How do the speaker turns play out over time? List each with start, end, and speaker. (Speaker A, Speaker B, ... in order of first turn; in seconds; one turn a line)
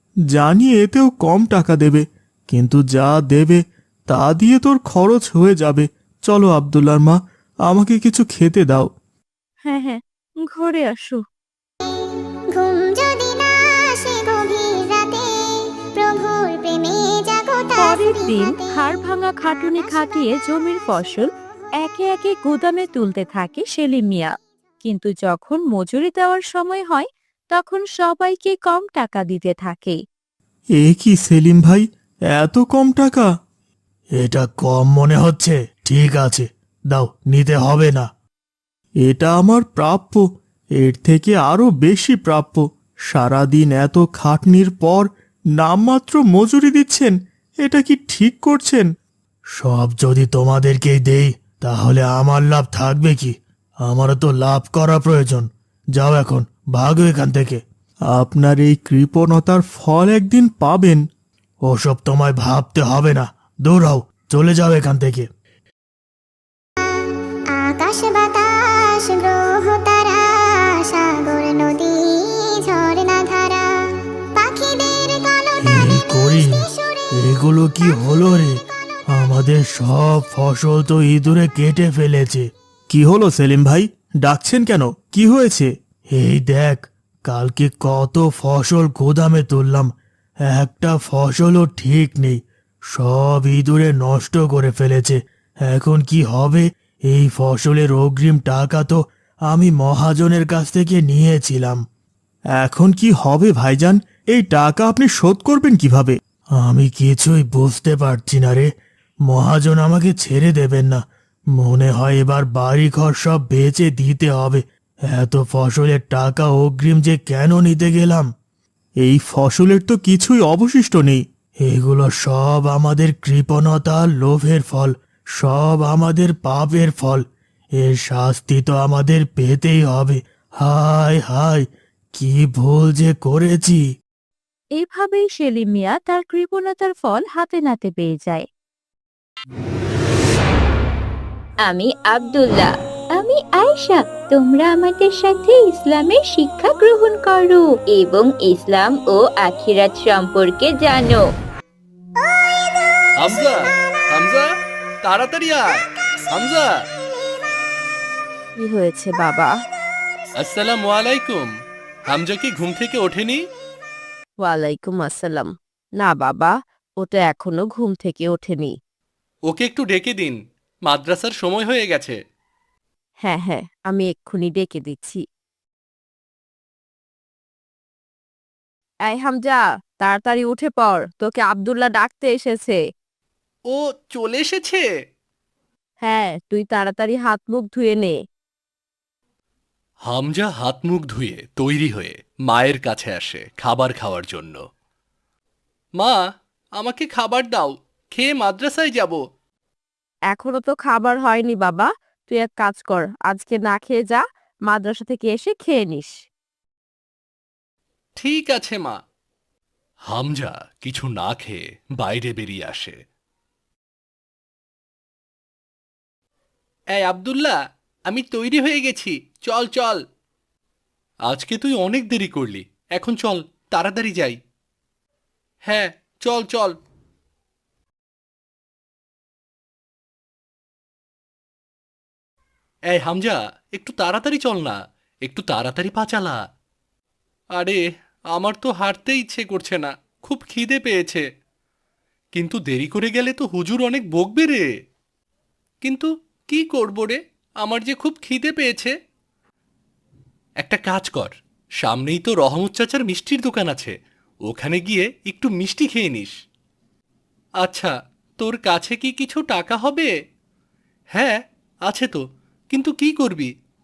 Speaker A: 0.3-8.9
Speaker B: 9.6-11.2
Speaker C: 12.5-18.7
Speaker B: 17.8-21.3
Speaker B: 21.8-24.3
Speaker B: 24.8-30.0
Speaker A: 30.8-33.3
Speaker A: 34.2-38.1
Speaker A: 39.0-40.2
Speaker A: 40.8-48.9
Speaker A: 49.6-61.0
Speaker A: 61.6-65.3
Speaker C: 67.5-73.7
Speaker C: 74.3-77.1
Speaker A: 75.6-78.6
Speaker A: 79.1-89.9
Speaker A: 90.4-92.4
Speaker A: 92.9-101.8
Speaker A: 102.6-108.7
Speaker A: 109.3-111.0
Speaker A: 111.5-118.3
Speaker A: 119.0-133.8
Speaker B: 134.8-138.4
Speaker D: 141.6-151.2
Speaker E: 153.2-153.6
Speaker E: 154.1-154.5
Speaker E: 155.0-156.8
Speaker B: 158.6-159.5
Speaker E: 160.4-161.5
Speaker E: 162.1-163.4
Speaker B: 164.4-168.8
Speaker E: 169.5-172.2
Speaker B: 173.2-175.2
Speaker B: 179.1-182.8
Speaker E: 183.7-184.8
Speaker B: 186.0-188.2
Speaker E: 190.1-194.6
Speaker E: 196.8-199.2
Speaker B: 200.3-206.2
Speaker E: 208.2-209.0
Speaker E: 210.1-213.0
Speaker E: 216.9-220.0
Speaker E: 221.3-224.4
Speaker E: 225.7-226.8
Speaker E: 232.9-236.4
Speaker E: 237.6-237.8
Speaker E: 238.3-241.2
Speaker E: 242.3-244.7
Speaker E: 245.8-248.9
Speaker E: 250.6-253.9
Speaker E: 254.4-256.3
Speaker E: 257.6-260.1
Speaker E: 261.1-263.5